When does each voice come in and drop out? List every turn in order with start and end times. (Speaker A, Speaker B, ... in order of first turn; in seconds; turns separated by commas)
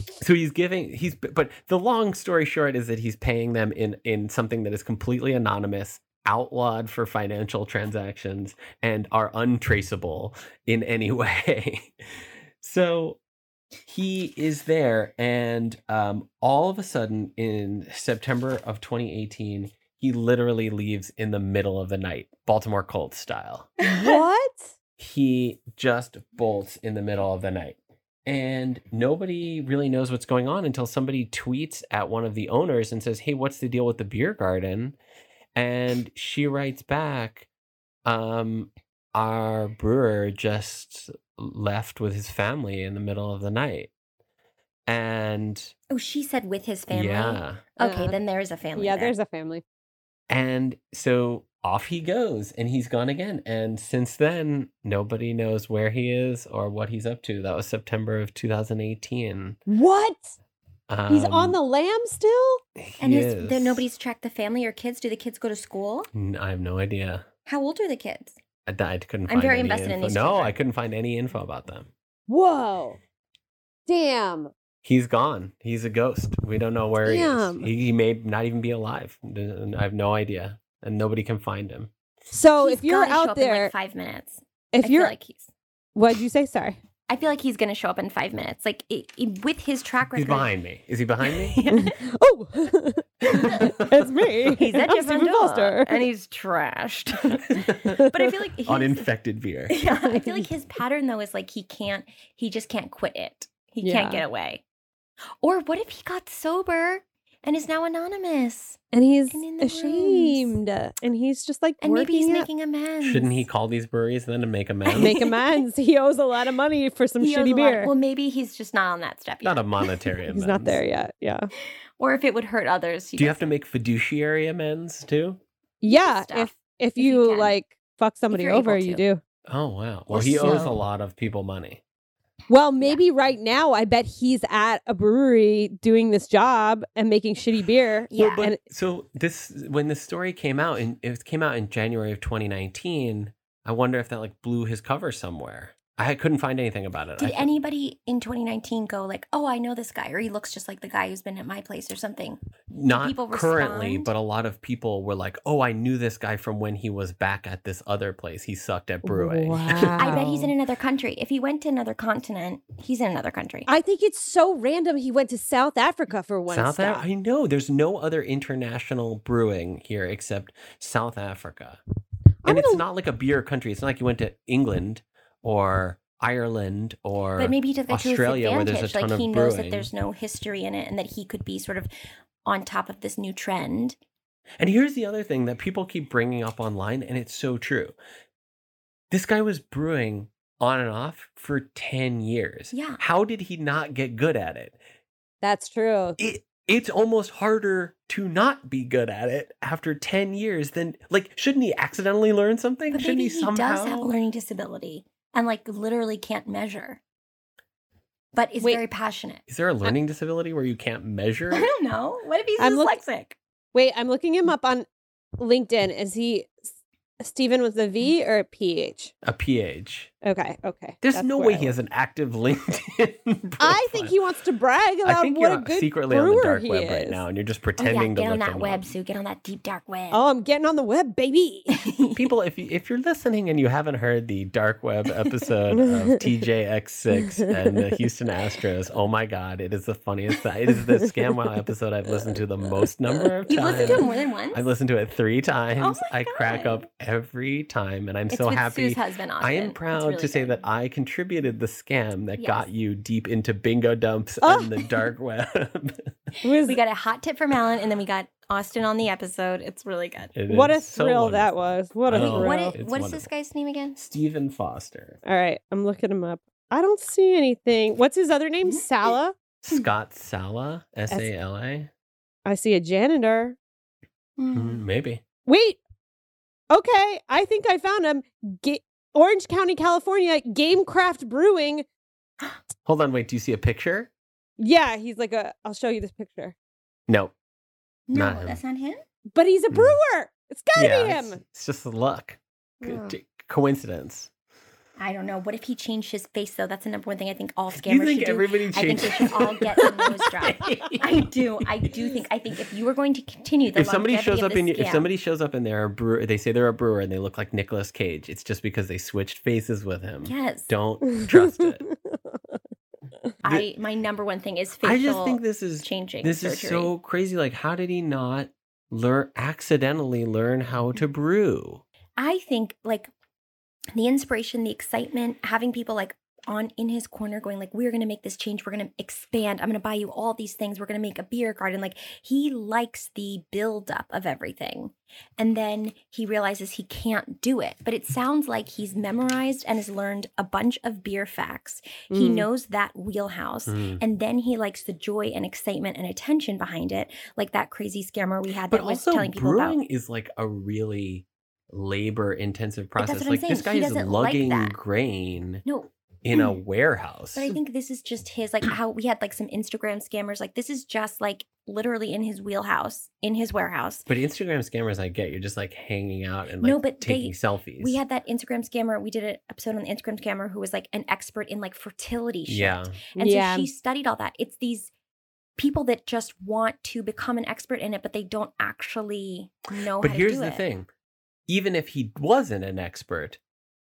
Speaker A: 0.2-11.9, Speaker A: 12.6-13.2, Speaker A: 13.8-23.7, Speaker B: 23.8-24.7, Speaker A: 25.0-35.0, Speaker A: 35.5-37.5, Speaker A: 38.0-43.9, Speaker A: 44.9-45.7, Speaker C: 45.9-49.1, Speaker A: 46.9-47.6, Speaker B: 47.8-48.2, Speaker B: 48.8-49.6, Speaker A: 50.3-59.6, Speaker B: 59.7-60.4, Speaker A: 60.9-61.6, Speaker B: 61.1-62.6, Speaker A: 62.8-63.8, Speaker C: 63.0-66.1, Speaker A: 66.1-67.3, Speaker C: 67.5-68.4, Speaker A: 68.7-71.9, Speaker C: 69.3-70.5, Speaker B: 72.3-73.0, Speaker B: 73.9-74.5, Speaker A: 74.8-81.9, Speaker B: 77.0-77.7, Speaker B: 82.3-83.7, Speaker C: 82.6-85.5, Speaker B: 84.7-85.1, Speaker B: 85.9-86.8, Speaker C: 87.1-90.5, Speaker A: 90.1-91.6, Speaker C: 91.3-92.0, Speaker B: 91.7-96.0, Speaker A: 93.3-94.1, Speaker C: 93.3-93.7, Speaker C: 94.5-99.1, Speaker A: 97.5-98.0, Speaker A: 98.6-99.8, Speaker C: 99.7-104.6, Speaker B: 100.0-100.4, Speaker B: 103.8-104.2, Speaker C: 105.4-110.5, Speaker B: 108.9-112.5, Speaker C: 111.8-113.4, Speaker A: 113.0-115.2, Speaker C: 114.8-115.4, Speaker B: 115.0-117.9, Speaker C: 117.2-119.9, Speaker A: 119.4-120.8, Speaker B: 120.3-121.5, Speaker C: 122.0-123.5, Speaker A: 123.2-125.4, Speaker B: 125.8-129.2, Speaker C: 125.8-127.5, Speaker C: 128.3-129.0, Speaker A: 129.5-131.8, Speaker C: 130.1-130.8, Speaker B: 132.5-138.6, Speaker C: 138.1-138.5, Speaker A: 138.2-147.5, Speaker C: 147.2-152.4, Speaker A: 152.7-160.2, Speaker C: 152.9-154.1, Speaker B: 159.0-160.5, Speaker C: 160.0-163.7, Speaker B: 163.7-167.0, Speaker A: 166.5-171.8, Speaker B: 172.4-172.8, Speaker A: 172.4-179.9, Speaker C: 177.4-181.9, Speaker C: 182.4-184.0, Speaker A: 184.6-187.9, Speaker A: 189.1-194.8, Speaker C: 192.7-193.0, Speaker B: 195.4-196.2, Speaker A: 196.2-204.1, Speaker C: 202.9-207.0, Speaker C: 208.3-209.4, Speaker A: 209.5-211.7, Speaker C: 211.5-213.4, Speaker B: 212.6-213.0, Speaker B: 213.7-214.8, Speaker B: 215.4-216.7, Speaker B: 217.2-219.1, Speaker A: 219.2-220.1, Speaker B: 220.2-221.7, Speaker A: 221.0-224.2, Speaker B: 223.6-227.2, Speaker A: 225.0-228.9, Speaker C: 227.8-230.2, Speaker B: 230.1-231.8, Speaker C: 231.8-232.2, Speaker A: 232.1-256.1, Speaker B: 235.8-236.2, Speaker B: 237.4-237.8, Speaker C: 243.5-244.6, Speaker C: 245.8-246.8, Speaker C: 248.3-250.6, Speaker C: 252.4-252.7, Speaker B: 254.4-254.7, Speaker B: 256.4-256.8, Speaker C: 256.6-260.3, Speaker A: 260.3-261.5, Speaker B: 260.5-262.8, Speaker A: 262.1-263.3, Speaker C: 262.1-264.0, Speaker A: 263.9-265.2, Speaker B: 265.2-269.3, Speaker C: 268.6-269.1, Speaker A: 269.6-271.9, Speaker B: 272.4-273.6, Speaker C: 274.4-274.8, Speaker A: 274.5-275.2, Speaker B: 275.4-275.8, Speaker B: 276.7-281.8, Speaker A: 282.8-284.1, Speaker B: 284.6-286.5, Speaker A: 287.1-287.3, Speaker C: 288.1-289.0, Speaker A: 288.1-288.6, Speaker B: 289.3-291.4, Speaker A: 289.7-289.9, Speaker A: 290.7-294.3, Speaker B: 292.8-293.1, Speaker C: 295.0-305.1, Speaker A: 297.7-302.0, Speaker A: 303.7-311.9, Speaker C: 310.2-310.7, Speaker C: 313.4-316.9, Speaker A: 314.8-321.8, Speaker C: 322.2-323.1, Speaker C: 323.9-349.8, Speaker B: 342.1-342.5, Speaker A: 343.7-344.0, Speaker A: 348.7-355.6, Speaker C: 353.0-354.8, Speaker C: 355.6-356.5, Speaker A: 356.2-357.5, Speaker C: 357.3-364.1, Speaker A: 364.1-368.0, Speaker C: 366.6-374.9, Speaker A: 372.4-373.0, Speaker B: 373.1-373.7, Speaker C: 375.6-380.6, Speaker A: 380.0-380.9, Speaker A: 381.5-383.4